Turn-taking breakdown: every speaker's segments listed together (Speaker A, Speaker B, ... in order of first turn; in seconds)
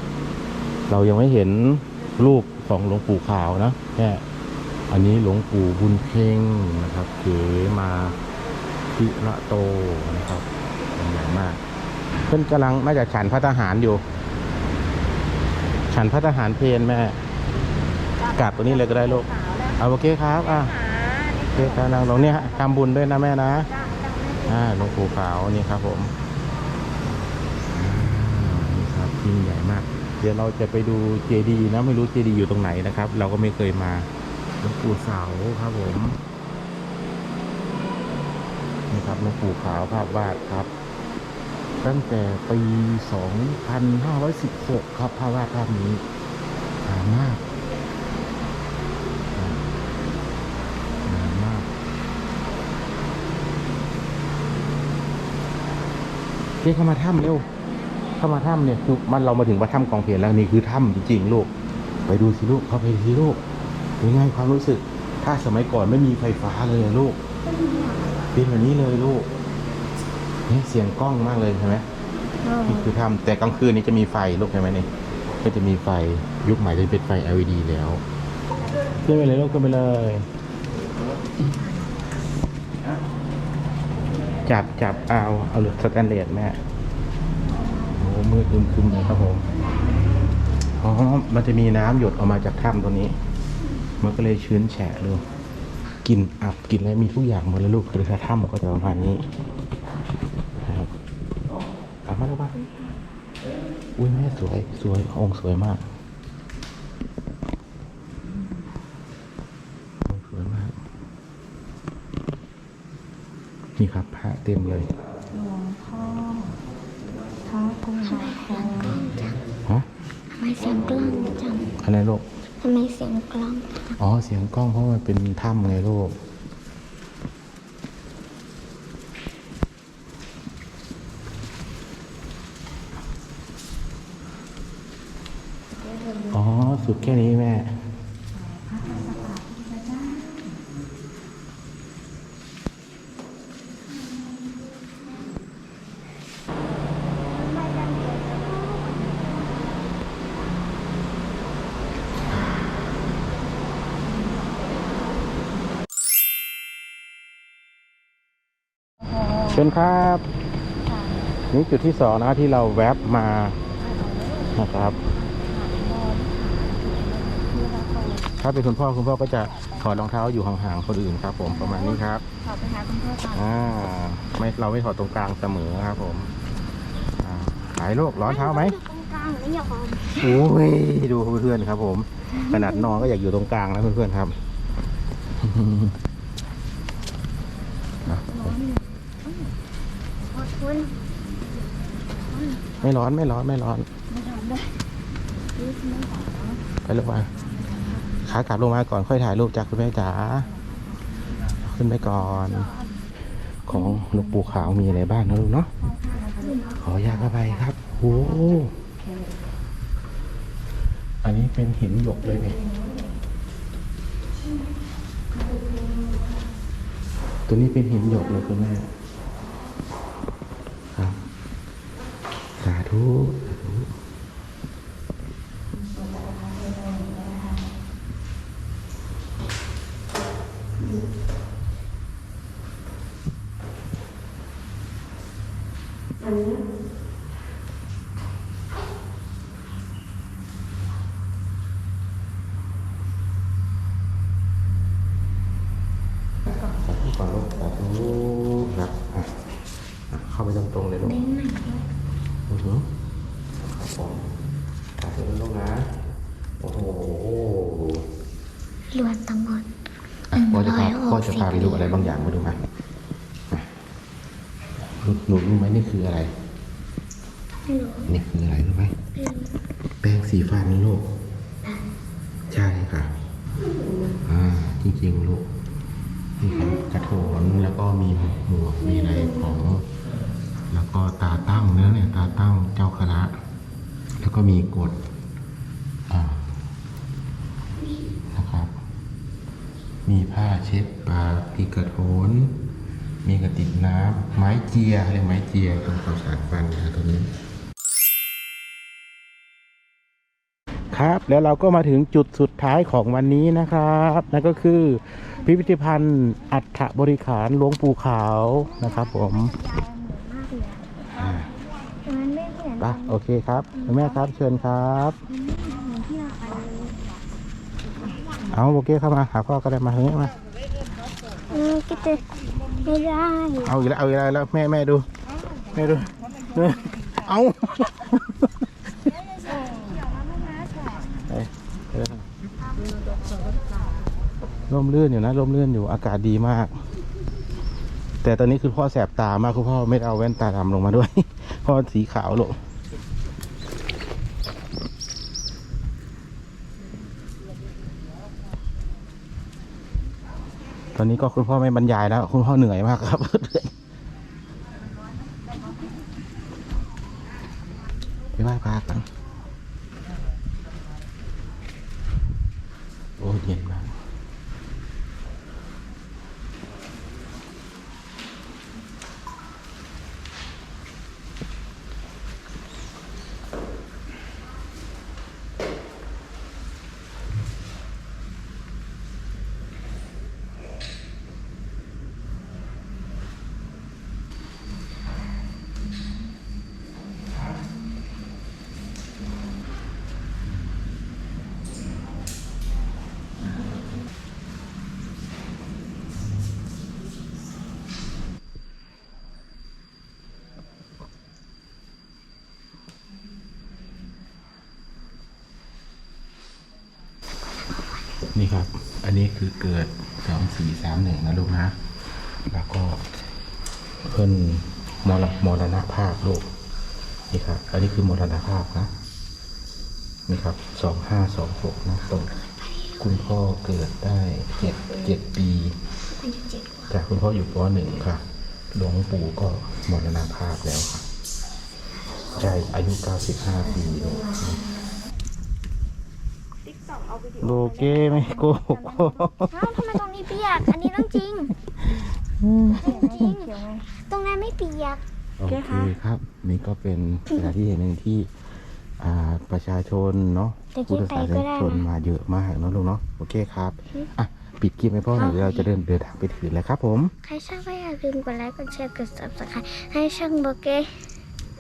Speaker A: 0.9-4.2, 4.9-8.2, 9.0-11.6, 12.3-14.0, 15.9-17.2, 18.3-20.8, 21.5-23.7, 24.4-26.1, 27.7-34.1, 34.6-36.2, 38.9-40.7, 41.8-46.0, 46.9-47.4, 51.1-51.7, 56.6-57.5, 58.2-61.5, 62.0-63.4, 64.0-67.2, 68.3-69.3, 70.5-71.8, 72.6-74.9, 75.4-78.0, 79.0-80.3, 84.5-86.6, 88.0-89.4, 90.8-93.2, 94.0-95.2, 96.0-99.2, 100.6-100.9, 102.1-102.5, 104.0-105.8, 110.1-110.7, 113.8-114.9, 121.8-122.2, 124.0-126.2, 136.3-137.7, 159.4-160.2, 161.5-163.6, 164.6-164.9, 168.4-172.2, 173.3-176.3, 177.2-178.8, 180.1-184.4, 185.4-185.9, 188.1-188.6, 192.8-193.9, 196.8-197.3, 198.2-200.5, 201.6-202.7, 203.7-205.7, 206.8-208.7, 211.2-212.6, 217.5-218.9, 222.6-223.9, 246.5-249.4, 250.1-251.2, 252.5-252.9, 253.6-254.3, 255.0-255.9, 256.6-258.0, 260.3-262.6, 264.9-266.3, 268.1-268.9, 270.0-271.0, 272.5-273.1, 274.2-275.4, 276.4-279.9, 280.7-283.3, 284.2-284.9, 286.1-286.5, 288.3-288.7, 290.1-292.5, 293.2-297.3, 300.9-309.5, 311.1-311.5, 312.8-315.2, 318.5-320.3, 323.6-325.1, 325.7-328.7, 331.2-332.3, 334.7-336.8, 338.2-342.6, 350.9-353.7, 358.4-359.1, 363.2-363.9, 408.3-411.8, 412.5-413.0, 414.1-416.4, 417.3-418.9, 420.3-422.3, 423.0-425.8, 426.9-428.2, 428.7-431.0, 432.3-434.6, 437.4-439.8, 440.6-440.9, 441.8-443.3, 445.4-448.3, 449.0-457.1
Speaker B: 102.5-102.9, 118.0-119.4, 120.3-121.7, 122.6-124.0, 147.4-149.2, 178.2-180.4, 182.5-182.9, 190.3-190.9, 206.4-206.7, 251.0-251.9, 258.9-259.7, 260.3-262.1, 267.7-268.1, 269.1-269.6, 308.9-310.8, 312.1-313.2, 313.8-314.1, 315.5-316.9, 321.5-323.8, 422.4-423.0, 426.2-426.9, 434.1-434.5, 439.5-441.5, 442.8-445.0, 450.8-451.9, 455.1-455.7, 457.2-461.1
Speaker C: 115.3-116.5, 117.4-119.0, 138.7-140.0, 160.9-161.3, 163.8-168.5, 171.5-173.6, 194.1-194.6, 195.6-196.6, 203.9-204.8, 205.8-207.6, 225.9-227.6, 315.6-316.6, 438.2-439.0, 442.9-443.8, 445.5-445.9